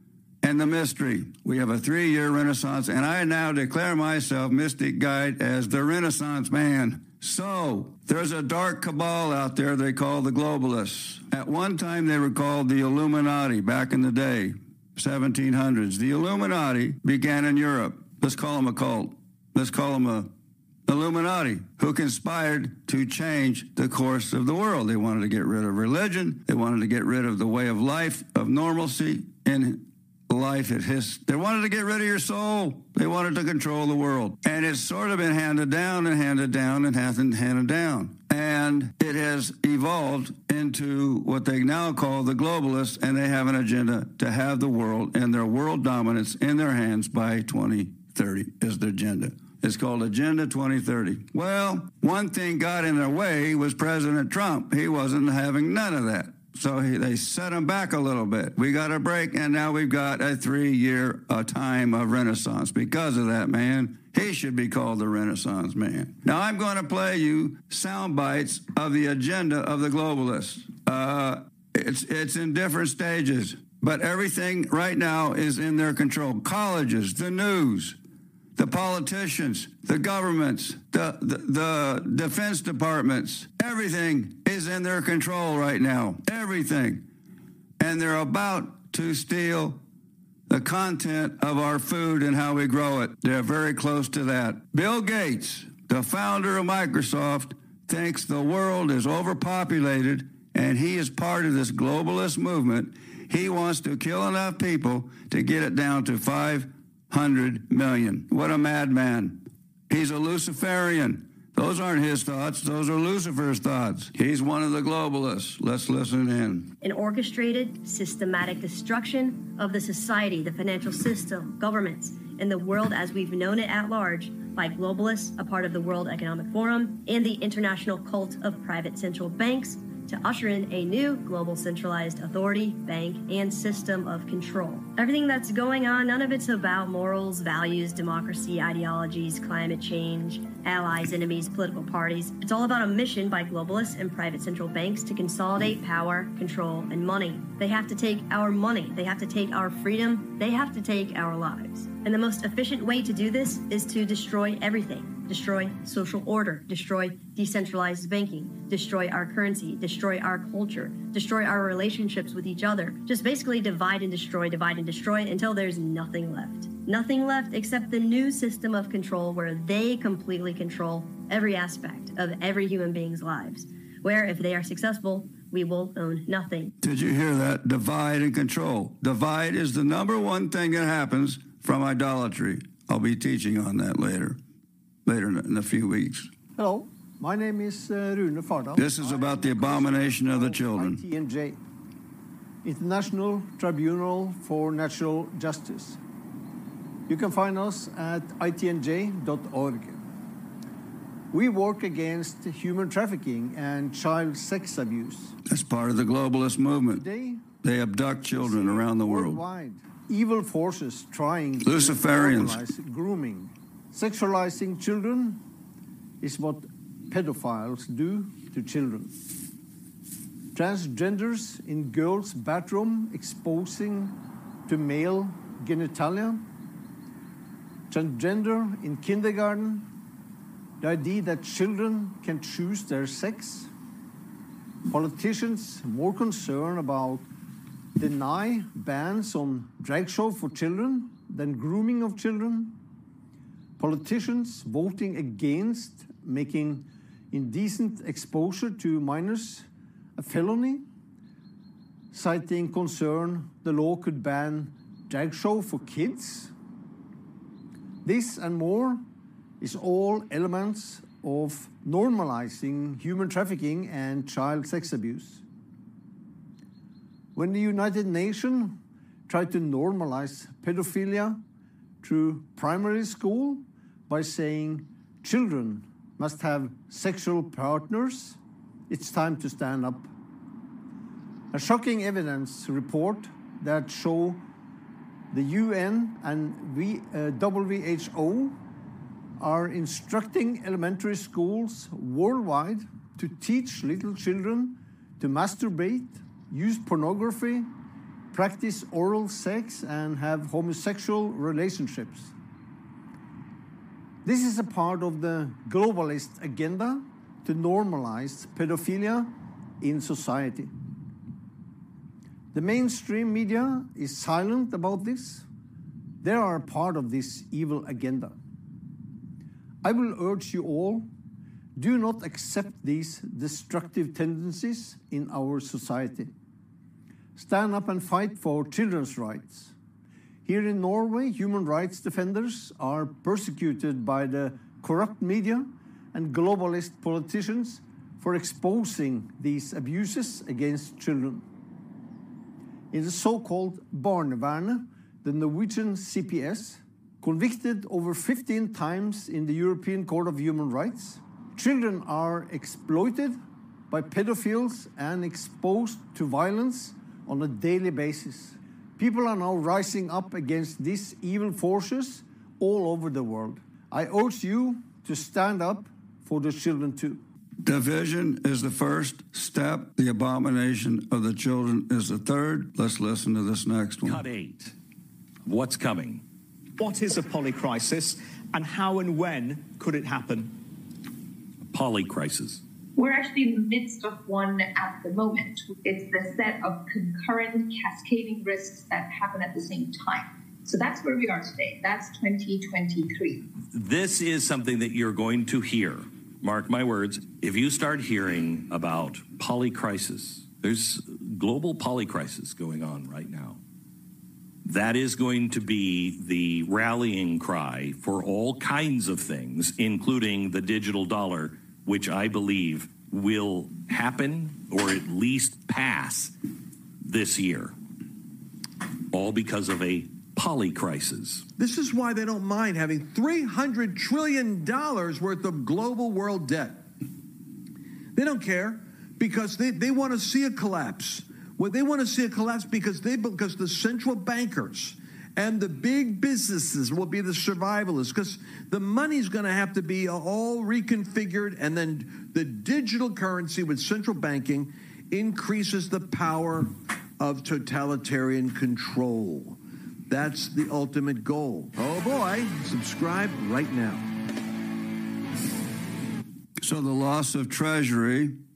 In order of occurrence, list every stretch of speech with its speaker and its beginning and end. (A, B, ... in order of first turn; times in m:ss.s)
0:00.4-0:20.3 A
0:20.9-1:18.0 A
1:18.6-1:27.0 A
1:27.8-1:29.8 A
1:30.5-1:56.7 A
1:56.8-2:56.8 B
2:56.8-3:04.4 A
3:05.0-3:06.3 A
3:06.6-3:11.6 C
3:08.8-3:11.0 A
3:12.6-3:16.0 C
3:17.1-3:20.0 C
3:21.3-3:25.4 C
3:25.4-3:27.0 A
3:26.9-3:27.5 C
3:27.6-3:29.4 A
3:28.3-3:35.4 C
3:31.6-3:32.6 A
3:36.2-3:39.2 C
3:40.5-3:46.4 C
3:47.9-3:49.9 C
3:50.8-3:53.7 C
3:54.9-3:57.3 C
3:58.0-4:02.8 C
4:03.8-4:10.9 C
4:12.1-4:16.5 C
4:18.0-4:19.0 C
4:19.6-4:25.4 C
4:27.4-4:31.4 C
4:32.0-4:38.4 C
4:38.9-4:40.1 C
4:41.5-4:44.4 C
4:45.3-4:48.6 C
4:49.4-4:57.7 C
4:58.3-5:02.3 C
5:04.2-5:10.7 C
5:12.5-5:15.5 C
5:16.2-5:18.4 C
5:19.8-5:21.1 C
5:21.8-5:26.3 C
5:27.4-5:29.7 C
5:30.5-5:41.4 C
5:42.9-5:53.4 C
5:53.9-6:07.2 C
6:07.6-6:14.2 A
6:14.0-6:14.7 D
6:15.4-6:16.2 D
6:16.8-6:20.5 E
6:21.7-6:22.6 D
6:23.0-6:33.4 F
6:33.7-6:43.6 D
6:44.6-6:56.3 D
6:57.0-6:57.7 D
6:59.1-7:01.5 D
7:01.6-7:06.9 G
7:08.2-7:34.1 G
7:36.6-7:38.4 A